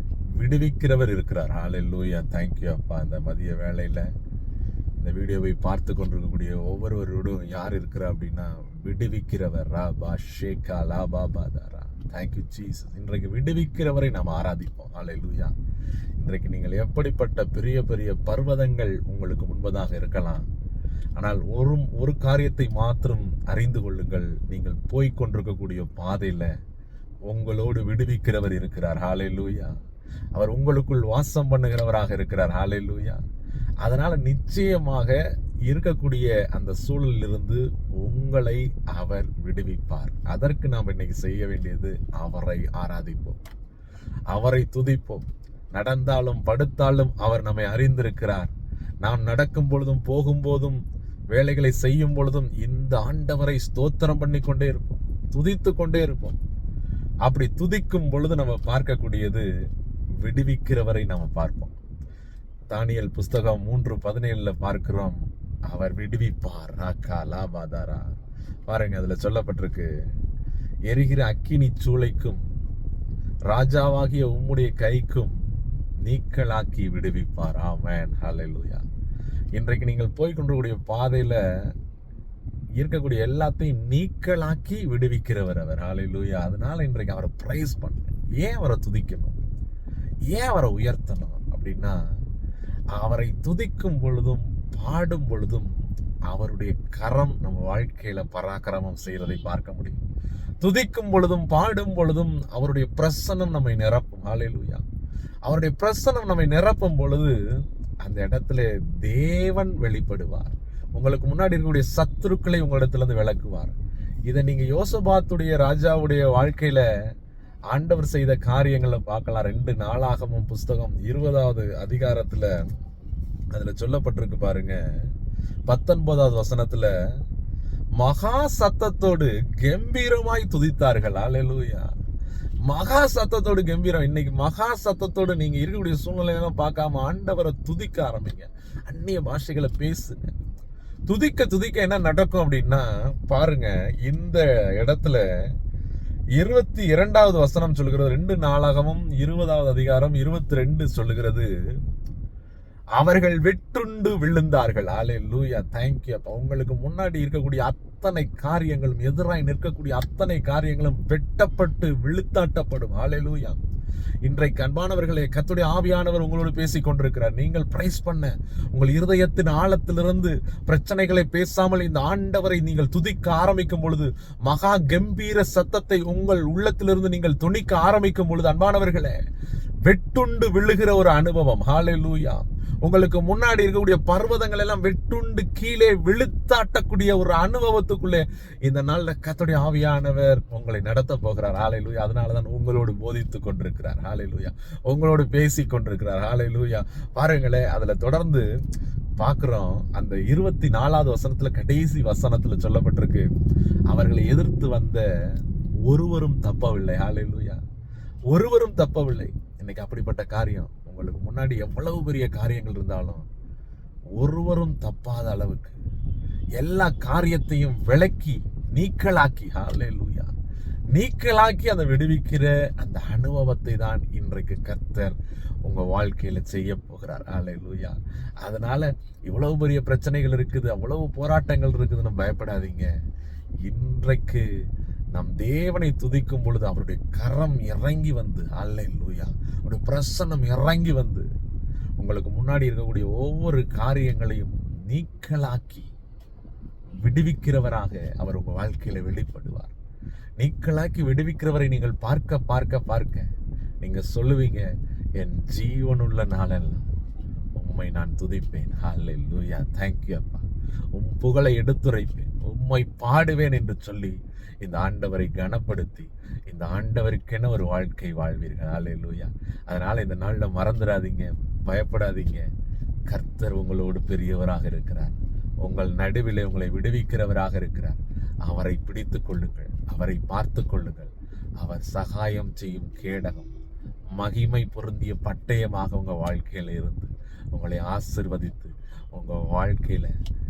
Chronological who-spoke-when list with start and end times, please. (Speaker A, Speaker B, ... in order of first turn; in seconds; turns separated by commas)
Speaker A: 0.3-4.1, Speaker A: 5.0-15.5, Speaker A: 16.2-20.4, Speaker A: 21.1-26.5, Speaker A: 27.3-29.7, Speaker A: 30.3-33.2, Speaker A: 33.8-43.4, Speaker A: 44.3-50.8, Speaker A: 51.3-56.4, Speaker A: 57.2-59.5, Speaker A: 60.2-61.8, Speaker A: 62.7-68.0, Speaker A: 68.7-69.9, Speaker A: 70.9-72.4, Speaker A: 73.5-75.4, Speaker A: 76.0-78.8, Speaker A: 79.5-81.4, Speaker A: 82.8-89.4, Speaker A: 90.3-92.0, Speaker A: 92.9-95.7, Speaker A: 96.3-100.0, Speaker A: 100.6-104.8, Speaker A: 105.5-107.3, Speaker A: 108.0-113.8, Speaker A: 114.3-116.8, Speaker A: 117.7-122.5, Speaker A: 123.5-124.8, Speaker A: 125.7-126.9, Speaker A: 128.0-131.9, Speaker A: 132.6-140.3, Speaker A: 141.1-145.2, Speaker A: 146.4-151.5, Speaker A: 152.9-163.6, Speaker A: 164.2-179.1, Speaker A: 179.8-198.4, Speaker A: 199.2-203.2, Speaker A: 203.9-205.0, Speaker A: 205.8-207.6, Speaker A: 208.3-213.2, Speaker A: 214.2-215.8, Speaker A: 216.6-220.3, Speaker A: 220.9-232.9, Speaker A: 233.6-234.4, Speaker A: 235.1-241.2, Speaker A: 242.0-245.9, Speaker A: 247.0-249.7, Speaker A: 250.4-253.3, Speaker A: 253.8-254.7, Speaker A: 255.2-256.9, Speaker A: 257.5-272.4, Speaker A: 273.1-283.5, Speaker A: 284.1-290.1